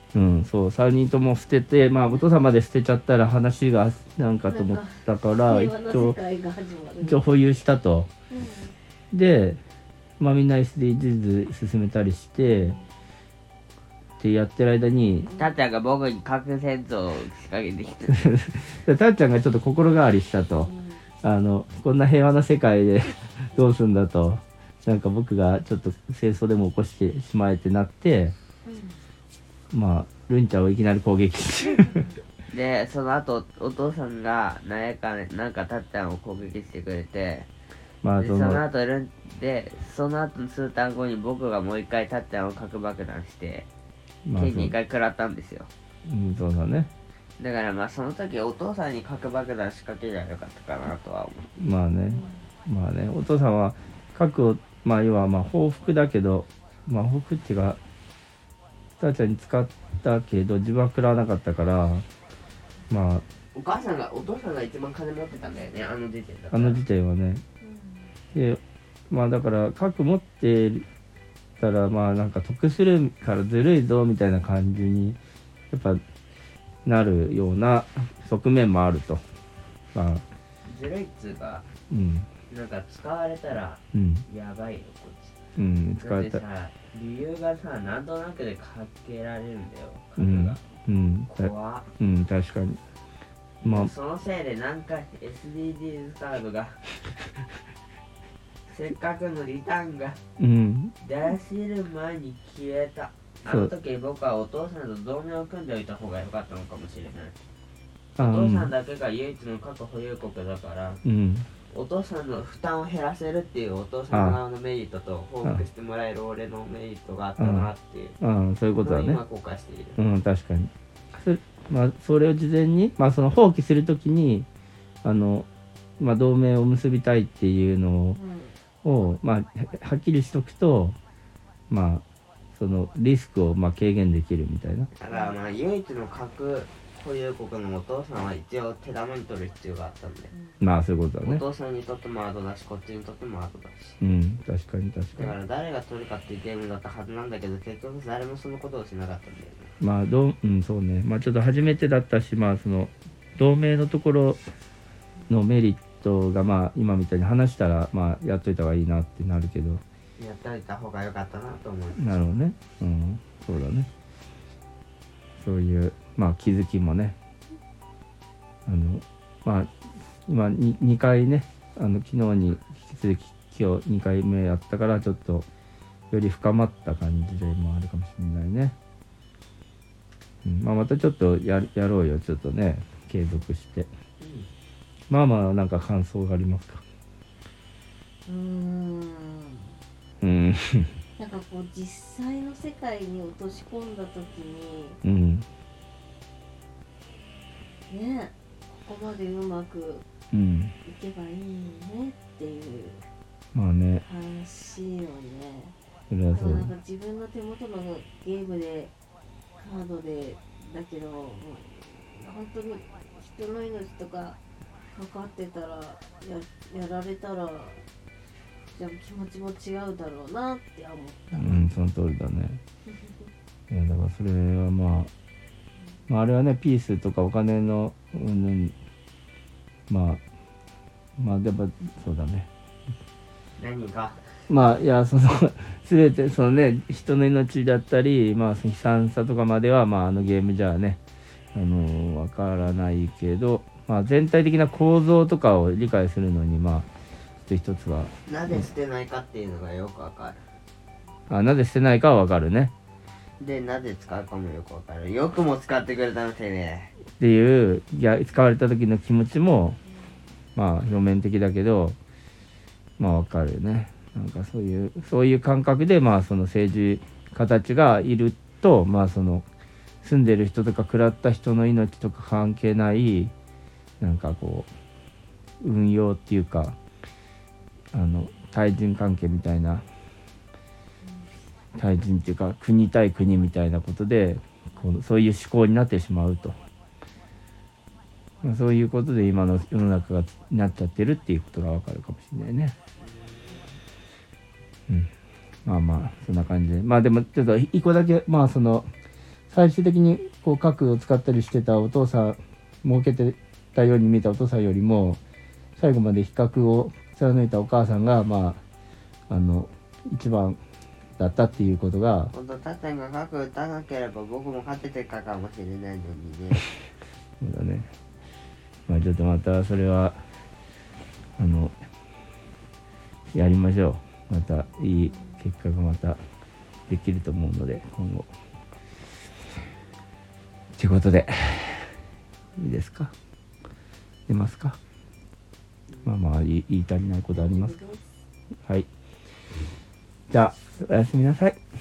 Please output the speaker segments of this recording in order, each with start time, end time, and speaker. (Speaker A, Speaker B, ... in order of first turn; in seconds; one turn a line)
Speaker A: 0.1-6.2
Speaker B: 4.5-7.2
Speaker A: 7.0-8.1
Speaker B: 8.3-8.8
Speaker A: 9.1-9.6
Speaker A: 10.2-12.8
Speaker B: 12.4-12.8
Speaker A: 14.2-15.3
Speaker B: 15.3-15.6
Speaker C: 15.3-18.2
Speaker A: 18.1-20.7
Speaker B: 20.6-21.0
Speaker A: 21.2-28.4
Speaker B: 28.6-29.0
Speaker A: 29.7-32.0
Speaker B: 31.8-32.2
Speaker C: 32.5-37.5
Speaker A: 38.0-38.6
Speaker C: 38.2-43.7
Speaker A: 44.3-44.7
Speaker C: 44.4-45.7
Speaker A: 46.1-46.9
Speaker C: 47.4-51.6
Speaker A: 51.6-57.8
Speaker B: 52.0-52.4
Speaker A: 59.0-62.1
Speaker A: 62.9-63.2
Speaker C: 63.5-66.8
Speaker A: 66.5-67.4
Speaker B: 67.6-68.1
Speaker A: 68.3-70.9
Speaker A: 71.6-75.2
Speaker A: 75.7-76.0
Speaker A: 76.8-79.2
Speaker A: 79.9-80.2
Speaker C: 80.7-81.7
Speaker A: 81.9-82.3
Speaker C: 82.5-85.4
Speaker A: 83.9-84.2
Speaker A: 85.6-86.4
Speaker C: 86.0-90.6
Speaker A: 90.2-92.8
Speaker C: 91.3-91.9
Speaker C: 93.6-96.8
Speaker A: 93.6-93.9
Speaker C: 98.7-100.2
Speaker A: 100.4-100.9
Speaker C: 101.0-107.3
Speaker A: 103.5-103.7
Speaker C: 108.2-111.0
Speaker A: 108.2-108.7
Speaker A: 111.0-111.5
Speaker C: 111.7-118.2
Speaker A: 114.1-114.4
Speaker A: 117.4-119.2
Speaker C: 118.8-120.0
Speaker A: 120.0-124.5
Speaker A: 125.0-125.5
Speaker A: 126.0-128.2
Speaker B: 128.1-128.6
Speaker A: 128.8-131.0
Speaker A: 131.7-132.0
Speaker A: 132.6-134.9
Speaker C: 135.0-140.3
Speaker B: 135.1-135.4
Speaker B: 140.3-140.6
Speaker A: 140.6-141.4
Speaker C: 141.2-144.0
Speaker A: 144.0-145.4
Speaker C: 145.2-149.7
Speaker A: 149.8-154.4
Speaker A: 155.3-159.8
Speaker C: 160.2-162.1
Speaker A: 161.9-163.9
Speaker A: 165.4-167.2
Speaker A: 168.7-169.7
Speaker A: 170.3-175.5
Speaker A: 176.1-178.8
Speaker A: 180.4-183.9
Speaker C: 184.2-184.5
Speaker A: 185.1-186.8
Speaker B: 188.3-189.7
Speaker A: 190.2-190.9
Speaker B: 191.2-195.0
Speaker A: 195.0-195.5
Speaker B: 197.9-200.1
Speaker A: 200.3-200.7
Speaker B: 200.8-203.1
Speaker A: 203.5-204.0
Speaker B: 204.0-205.8
Speaker A: 206.1-206.7
Speaker B: 206.3-208.9
Speaker B: 209.6-214.4
Speaker B: 214.9-217.8
Speaker B: 218.7-221.7
Speaker A: 221.3-222.6
Speaker A: 223.7-225.1
Speaker A: 226.1-228.7
Speaker A: 229.9-230.2
Speaker A: 231.2-232.5
Speaker C: 233.6-234.2
Speaker A: 234.5-241.0
Speaker A: 241.6-246.9
Speaker A: 247.4-248.7
Speaker C: 248.3-250.4
Speaker A: 251.3-252.7
Speaker C: 253.4-256.9
Speaker A: 257.2-259.8
Speaker A: 260.6-262.0
Speaker A: 263.0-269.4
Speaker A: 270.0-273.3
Speaker A: 274.0-274.7
Speaker A: 275.6-276.8
Speaker A: 277.9-279.8
Speaker A: 281.8-286.6
Speaker A: 288.4-292.8
Speaker C: 293.0-293.8
Speaker A: 295.6-298.9
Speaker A: 299.5-305.2
Speaker A: 305.8-308.6
Speaker A: 309.3-310.6
Speaker A: 311.2-312.3
Speaker C: 312.3-316.6
Speaker A: 317.4-317.9
Speaker A: 318.9-320.2
Speaker A: 321.4-321.7
Speaker A: 323.3-326.2
Speaker A: 326.9-328.3
Speaker A: 330.8-331.9
Speaker A: 332.6-333.1
Speaker A: 334.3-334.8
Speaker A: 336.1-337.8
Speaker B: 337.4-338.2
Speaker A: 340.3-341.6